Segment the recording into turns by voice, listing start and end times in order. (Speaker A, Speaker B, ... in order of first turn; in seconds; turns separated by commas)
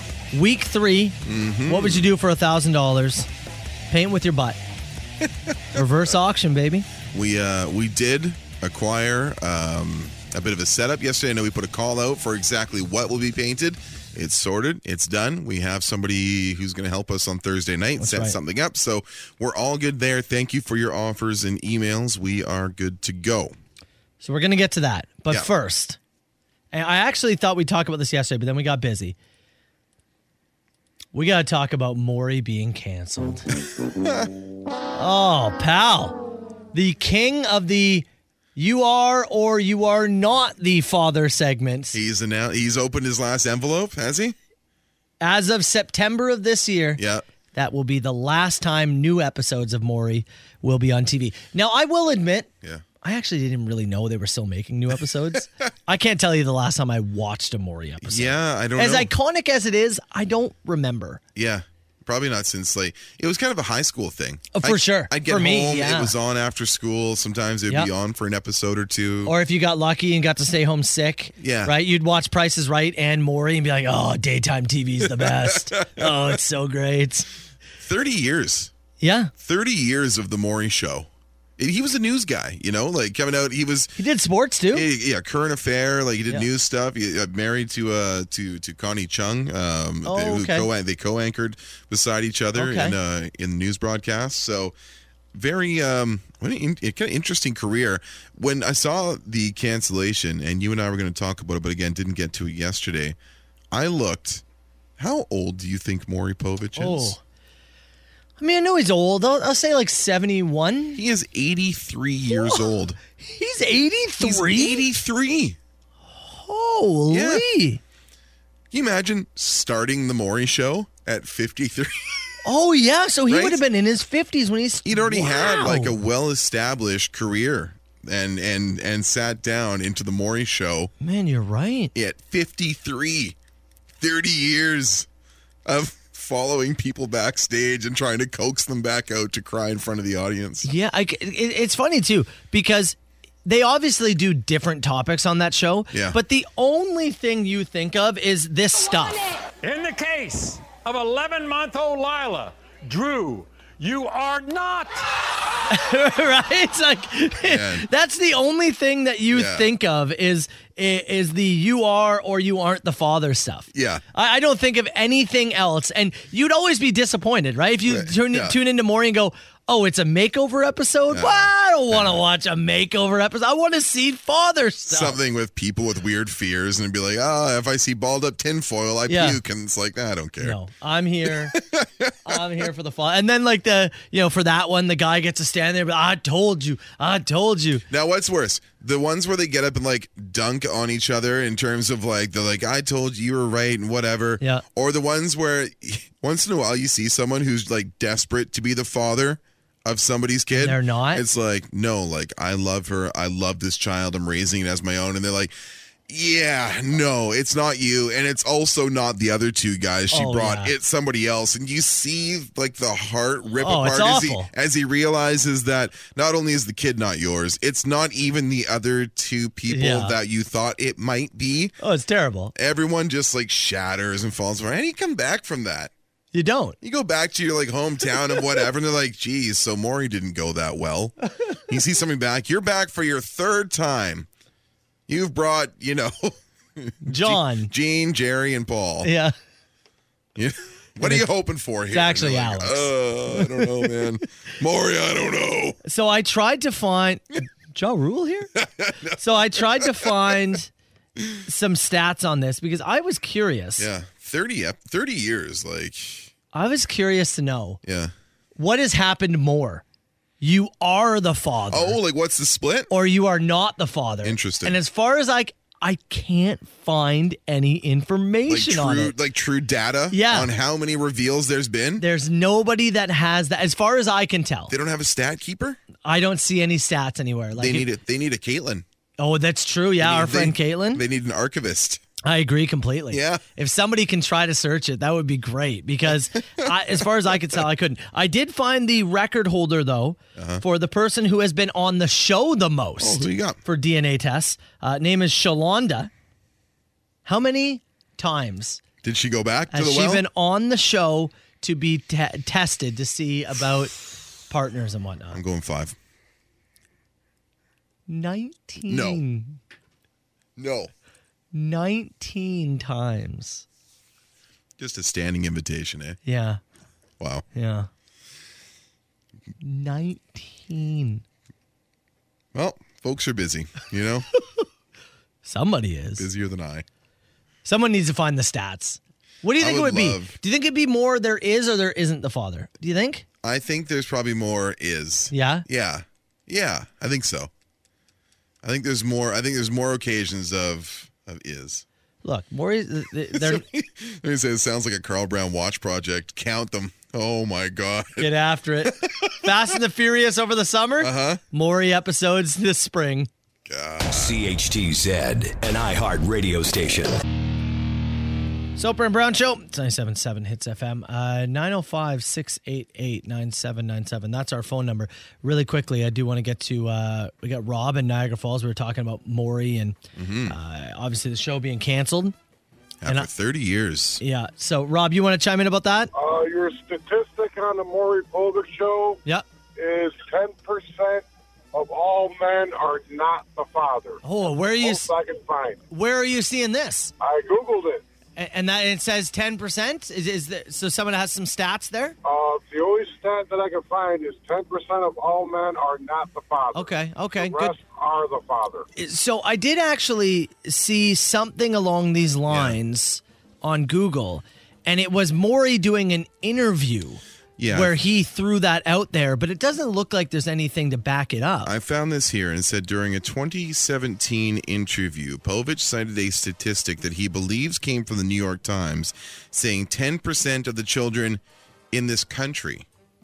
Speaker A: 0.3-3.3, Speaker B: 1.2-2.1, Speaker A: 3.9-4.6, Speaker A: 5.7-6.8, Speaker B: 7.1-23.5, Speaker A: 18.0-18.4, Speaker A: 24.2-26.0, Speaker A: 26.7-29.1, Speaker A: 31.1-33.5, Speaker B: 33.8-34.3, Speaker A: 35.0-36.2, Speaker A: 36.7-42.0, Speaker B: 41.9-44.4, Speaker A: 45.2-47.0, Speaker B: 47.0-47.2, Speaker A: 47.5-52.5, Speaker A: 53.0-61.2, Speaker B: 58.0-59.1, Speaker B: 61.3-69.3, Speaker A: 64.5-66.1, Speaker A: 69.2-77.3, Speaker B: 71.4-71.7, Speaker B: 75.0-76.3, Speaker B: 77.8-78.7, Speaker A: 79.0-79.3, Speaker B: 79.3-84.0, Speaker A: 84.0-84.9, Speaker B: 84.7-94.7, Speaker A: 90.0-90.7, Speaker A: 92.5-93.0, Speaker B: 95.3-103.2, Speaker B: 103.7-104.4, Speaker B: 105.0-107.2, Speaker A: 106.8-107.2, Speaker A: 108.4-111.0, Speaker B: 111.0-113.0, Speaker A: 112.3-112.6, Speaker A: 113.2-114.8, Speaker B: 114.2-115.6, Speaker A: 116.1-117.8, Speaker B: 117.1-117.5, Speaker B: 118.7-122.2, Speaker A: 122.4-126.0, Speaker B: 123.3-123.6, Speaker B: 124.8-130.9, Speaker A: 131.0-131.9, Speaker B: 131.9-133.3, Speaker B: 134.0-135.1, Speaker B: 135.7-140.7, Speaker A: 140.6-149.2, Speaker B: 145.9-146.2, Speaker C: 149.6-155.1, Speaker A: 155.7-175.2, Speaker B: 157.4-157.9, Speaker B: 159.3-159.7, Speaker B: 163.7-164.0, Speaker B: 167.8-168.6, Speaker B: 171.1-172.2, Speaker B: 174.9-180.6, Speaker A: 179.1-179.4, Speaker A: 180.4-181.6, Speaker B: 181.5-182.4, Speaker A: 182.2-187.8, Speaker B: 187.9-205.5, Speaker A: 200.5-201.2, Speaker B: 206.1-221.7, Speaker A: 210.1-210.7, Speaker A: 213.6-214.5, Speaker A: 219.7-220.2, Speaker A: 221.8-222.5, Speaker B: 222.5-225.9, Speaker A: 226.3-226.8, Speaker B: 226.8-231.1, Speaker B: 231.7-234.3, Speaker B: 235.1-239.1, Speaker A: 237.0-237.7, Speaker A: 239.0-239.3, Speaker B: 240.3-245.8, Speaker A: 241.0-241.3, Speaker A: 241.9-244.0, Speaker A: 245.8-248.5, Speaker B: 248.6-250.3, Speaker A: 249.2-250.7, Speaker A: 251.4-253.9, Speaker B: 253.8-256.3, Speaker A: 256.5-257.8, Speaker B: 257.8-258.1, Speaker A: 258.6-259.8, Speaker A: 260.4-262.0, Speaker B: 261.7-262.9, Speaker A: 262.9-269.1, Speaker B: 264.2-264.8, Speaker B: 268.5-272.0, Speaker A: 270.1-270.5, Speaker A: 272.0-274.7, Speaker B: 274.7-275.8, Speaker A: 276.0-277.9, Speaker B: 277.6-278.8, Speaker A: 279.2-281.0, Speaker B: 280.0-282.0, Speaker A: 282.2-296.1, Speaker B: 283.1-283.4, Speaker B: 286.6-287.0, Speaker B: 290.4-290.6, Speaker B: 293.0-293.6, Speaker A: 297.2-298.8, Speaker B: 299.0-300.2, Speaker A: 299.7-304.0, Speaker A: 304.5-305.4, Speaker B: 305.3-306.0, Speaker A: 308.1-309.6, Speaker B: 308.9-309.2, Speaker B: 310.6-310.9, Speaker A: 311.5-313.6, Speaker B: 314.8-316.2, Speaker A: 316.2-316.6, Speaker B: 317.2-317.4, Speaker A: 317.5-317.9, Speaker A: 319.6-321.2, Speaker B: 322.5-324.3, Speaker A: 325.4-326.2, Speaker B: 326.2-326.9, Speaker A: 327.6-333.2, Speaker B: 329.6-330.4, Speaker B: 333.4-337.5, Speaker A: 335.3-335.6, Speaker B: 338.6-341.8, Speaker A: 342.2-343.6, Speaker B: 343.3-348.3, Speaker A: 348.2-353.3, Speaker B: 348.8-349.5, Speaker B: 351.0-351.4, Speaker B: 353.6-354.4, Speaker D: 354.1-357.2, Speaker A: 358.8-372.3, Speaker B: 370.1-370.6, Speaker B: 373.0-374.2, Speaker A: 374.2-376.1, Speaker E: 376.1-379.2, Speaker E: 379.8-384.2, Speaker A: 384.2-385.1, Speaker E: 384.8-385.8, Speaker A: 385.9-387.1, Speaker E: 387.2-388.0, Speaker A: 388.4-392.1, Speaker E: 392.2-398.9, Speaker A: 396.7-397.7, Speaker A: 398.9-411.7, Speaker B: 402.5-402.8, Speaker B: 407.6-407.9, Speaker B: 411.6-422.9